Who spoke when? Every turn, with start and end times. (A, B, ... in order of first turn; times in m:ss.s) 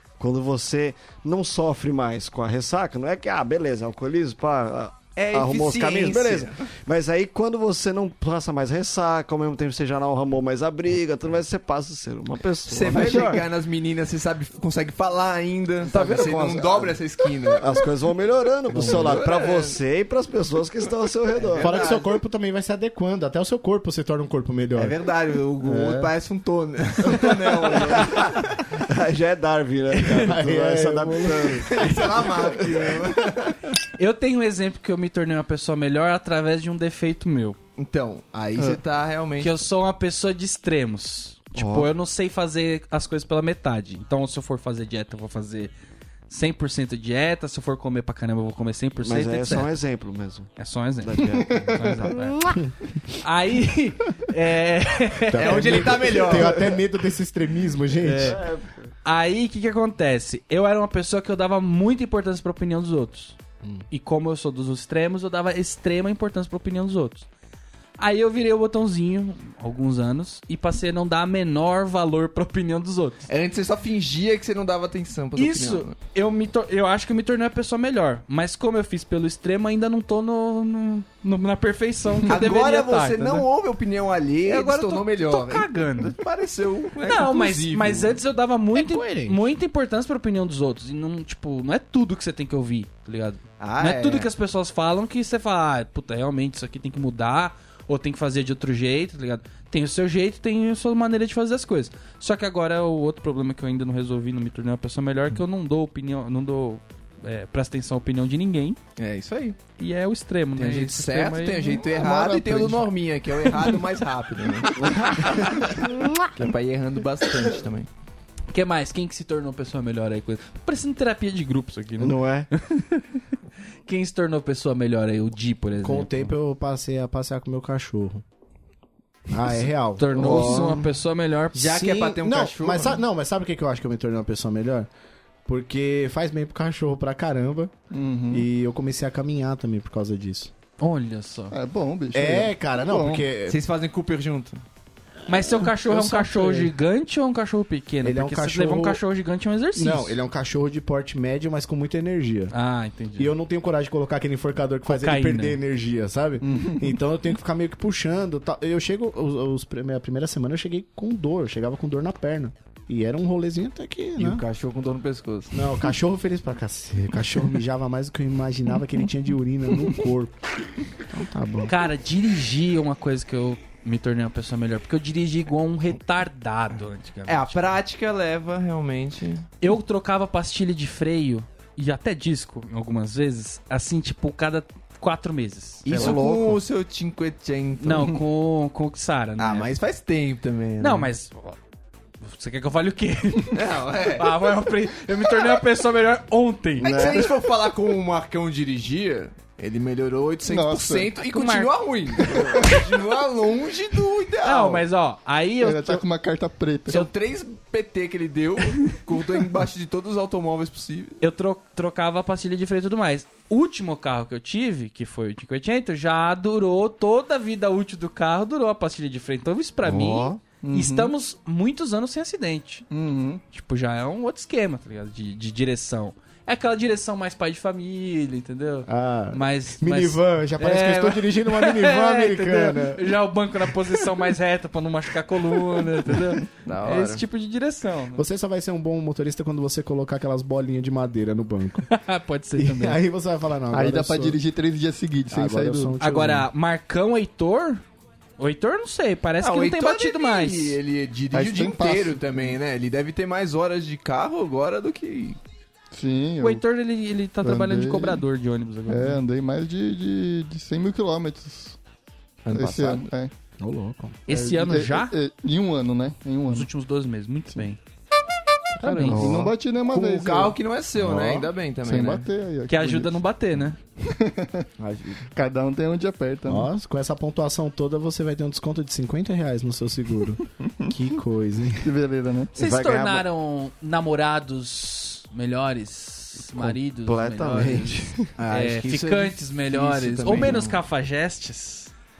0:00.2-0:13.4 A
0:05.1-0:06.6 B
0:12.7-0:17.7 B
0:15.8-0:16.9 A
0:17.6-0:21.9 A
0:18.7-0:19.8 B
0:18.8-0:19.1 C
0:21.3-0:22.2 B
0:21.6-0:24.9 C
0:24.8-0:28.4 B
0:25.6-0:26.1 C
0:28.7-0:31.9 A
0:30.0-0:31.9 C
0:31.7-0:33.5 B
0:34.0-0:37.6 D
0:37.8-0:39.5 B
0:39.4-0:45.7 D
0:41.6-0:41.9 A
0:46.3-0:49.7 D
0:49.0-0:50.5 A
0:50.6-0:52.4 D
0:51.0-0:52.2 A
0:51.3-0:51.9 E
0:52.5-0:52.7 C
0:53.2-0:56.1 D
0:55.3-0:58.4 C
0:55.3-0:56.7 B
0:58.0-0:58.9 A
0:59.0-1:03.4 D
1:03.9-1:07.3 D
1:08.0-1:13.2 D
1:13.3-1:16.0 B
1:15.4-1:23.4 D
1:22.3-1:28.2 B
1:24.4-1:26.2 D
1:27.0-1:48.8 D
1:28.7-1:29.5 C
1:33.6-1:34.3 B
1:49.0-1:49.6 B
1:49.8-1:51.8 D
1:50.6-1:55.5 B
1:51.9-1:52.8 E
1:54.8-1:55.4 A
1:56.3-1:57.9 B
1:58.5-2:03.0 D
2:02.0-2:02.5 A
2:03.8-2:06.3 D
2:05.8-2:08.2 C
2:09.3-2:10.7 C
2:10.0-2:12.0 D
2:10.1-2:10.9 A
2:11.5-2:14.9 C
2:11.6-2:13.0 B
2:15.4-2:17.7 C
2:17.9-2:18.4 E
2:18.3-2:20.5 C
2:20.8-2:21.6 D
2:21.5-2:23.2 E
2:22.1-2:23.6 C
2:23.5-2:24.6 B
2:25.3-2:30.2 D
2:25.3-2:26.7 C
2:28.0-2:29.0 C
2:29.7-2:32.5 C
2:32.5-2:33.3 D
2:33.2-2:44.4 C
2:34.8-2:35.6 D
2:44.2-2:45.7 B
2:45.5-2:50.4 C
2:51.1-2:51.7 C
2:51.7-2:57.8 D
2:57.3-2:59.5 B
2:59.6-3:06.2 D
3:05.8-3:08.2 B
3:06.0-3:06.5 C
3:06.0-3:06.3 A
3:07.8-3:09.7 D
3:09.4-3:11.1 B
3:10.8-3:11.6 D
3:12.2-3:16.9 D
3:13.5-3:14.4 B
3:16.8-3:17.3 A
3:16.8-3:24.8 B
3:20.4-3:21.1 E
3:21.3-3:21.7 D
3:24.4-3:26.0 D
3:25.6-3:27.0 E
3:26.9-3:31.2 B
3:31.2-3:42.8 D
3:39.8-3:40.4 A
3:40.6-3:41.1 E
3:42.9-3:43.4 E
3:43.5-3:58.2 D
3:48.9-3:53.2 C
3:56.6-3:57.2 B
3:58.1-4:01.9 C
4:01.9-4:03.0 D
4:02.6-4:04.4 C
4:03.7-4:05.9 E
4:05.3-4:06.5 C
4:06.0-4:07.8 D
4:08.4-4:10.8 D
4:09.4-4:15.4 B
4:11.3-4:12.3 E
4:15.9-4:16.6 E
4:16.4-4:19.2 D
4:17.4-4:18.2 E
4:18.9-4:21.8 E
4:22.4-4:23.0 B
4:22.5-4:23.3 E
4:23.6-4:24.2 C
4:24.3-4:25.1 D
4:24.3-4:26.7 E
4:26.5-4:27.8 D
4:28.8-4:29.2 C
4:28.8-4:29.3 D
4:29.1-4:29.6 A
4:29.1-4:30.6 E
4:29.9-4:32.3 B
4:31.0-4:31.4 A
4:31.8-4:33.2 E
4:32.7-4:33.8 D
4:34.0-4:34.6 E
4:34.8-4:35.3 B
4:35.3-4:36.7 E
4:36.4-4:41.8 C
4:41.8-4:42.5 E
4:42.6-4:43.2 A
4:42.6-4:51.9 D
4:46.5-4:48.3 A
4:48.4-4:50.8 B